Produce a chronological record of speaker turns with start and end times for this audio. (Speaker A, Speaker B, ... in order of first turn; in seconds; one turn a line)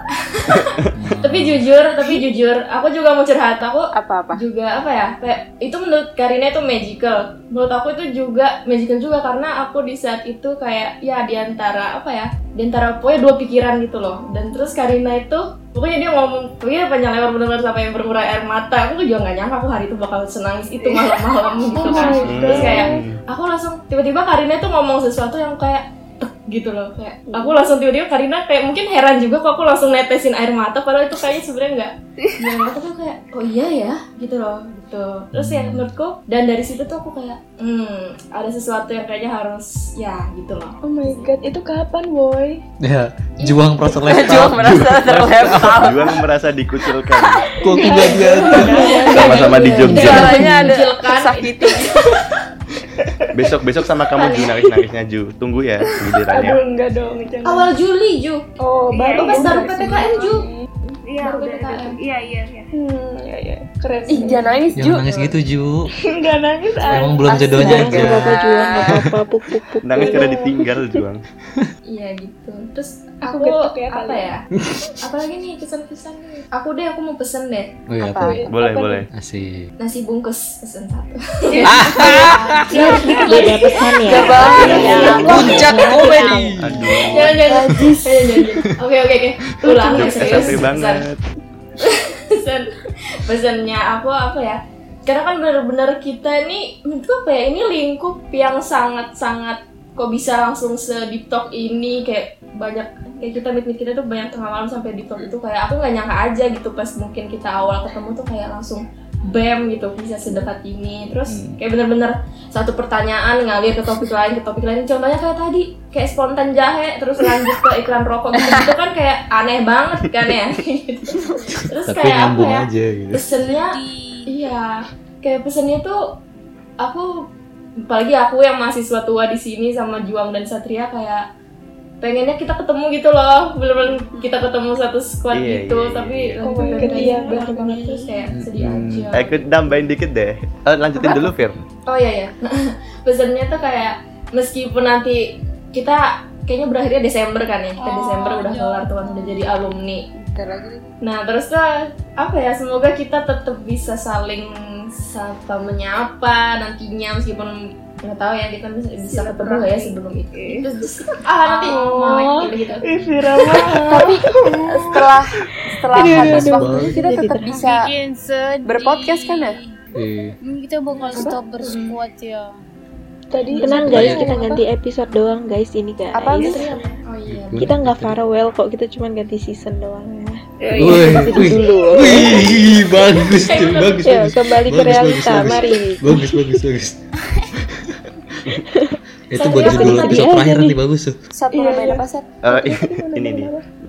Speaker A: 0.3-40.7
Speaker B: 0.5-0.8
Speaker C: 0.9-1.6
Speaker D: 3.9-4.4
Speaker E: 20.9-22.4
Speaker F: 21.7-23.0
Speaker B: 22.2-23.2
Speaker C: 35.3-35.9
Speaker F: 40.8-42.6
Speaker C: 42.8-45.9
Speaker A: 43.4-43.8
Speaker D: 44.0-46.2
Speaker B: 45.1-47.4
Speaker C: 47.6-50.6
Speaker F: 47.7-50.1
Speaker A: 48.5-51.5
Speaker B: 49.1-50.4
Speaker D: 49.9-52.1
Speaker B: 53.3-56.6
Speaker A: 54.1-54.5
Speaker F: 56.3-57.7
Speaker A: 57.4-58.4
Speaker F: 58.6-60.6
Speaker E: 58.9-60.3
Speaker A: 59.2-60.4
Speaker E: 61.0-62.7
Speaker A: 61.2-62.0
Speaker F: 62.7-64.7
Speaker D: 64.1-65.0
Speaker C: 64.8-65.9
Speaker A: 65.0-65.3
Speaker F: 66.1-67.7
Speaker C: 66.9-68.3
Speaker D: 67.2-69.0
Speaker G: 67.5-70.3
Speaker C: 68.8-69.2
Speaker B: 69.8-71.2
Speaker F: 70.0-70.6
Speaker A: 71.9-74.4
Speaker F: 73.2-74.3
Speaker C: 74.6-74.9
Speaker A: 75.0-77.7
Speaker C: 77.9-78.5
Speaker D: 78.0-78.4
Speaker F: 78.1-79.0
Speaker B: 78.5-79.1
Speaker C: 79.1-79.7
Speaker A: 79.8-83.6
Speaker F: 81.5-83.6
Speaker C: 81.6-83.1
Speaker G: 82.7-86.5
Speaker D: 84.1-86.2
Speaker H: 84.2-86.5
Speaker B: 84.5-85.6
Speaker C: 85.2-87.1
Speaker B: 86.6-87.5
Speaker A: 87.0-91.0
Speaker F: 87.4-88.0
Speaker F: 89.7-90.5
Speaker B: 89.9-91.2
Speaker A: 91.8-121.1
Speaker C: 111.3-111.6
Speaker C: 121.5-123.3
Speaker A: 121.7-126.0
Speaker H: 123.5-124.3
Speaker A: 126.8-127.1
Speaker A: 127.9-131.2
Speaker A: 132.0-139.3
Speaker B: 135.3-136.7
Speaker F: 136.4-137.6
Speaker G: 137.0-138.2
Speaker C: 138.3-139.2
Speaker B: 139.1-141.6
Speaker A: 141.8-150.1
Speaker D: 147.9-148.4
Speaker H: 148.4-148.6
Speaker D: 150.1-150.9
Speaker A: 151.0-162.8
Speaker E: 159.0-160.6
Speaker F: 161.6-164.2
Speaker D: 163.8-167.9
Speaker G: 164.4-165.0
Speaker G: 165.9-167.5
Speaker C: 166.1-167.1
Speaker F: 167.1-167.4
Speaker H: 167.5-169.8
Speaker D: 168.6-169.6
Speaker C: 169.9-170.4
Speaker H: 170.4-172.6
Speaker A: 171.0-171.9
Speaker F: 171.1-171.4
Speaker F: 173.3-174.6
Speaker A: 173.5-173.8
Speaker G: 173.6-176.8
Speaker C: 173.9-174.3
Speaker D: 176.1-176.7
Speaker F: 176.6-176.8
Speaker A: 177.1-177.7
Speaker C: 177.3-178.2
Speaker G: 177.6-182.6
Speaker E: 180.6-181.6
Speaker C: 180.7-187.0
Speaker A: 183.4-184.1
Speaker G: 184.0-186.6
Speaker C: 187.5-188.6
Speaker G: 188.5-189.0
Speaker C: 189.3-191.2
Speaker A: 189.3-190.2
Speaker F: 189.6-190.7
Speaker G: 189.8-190.6
Speaker D: 191.3-192.3
Speaker F: 191.5-193.7
Speaker B: 192.5-193.5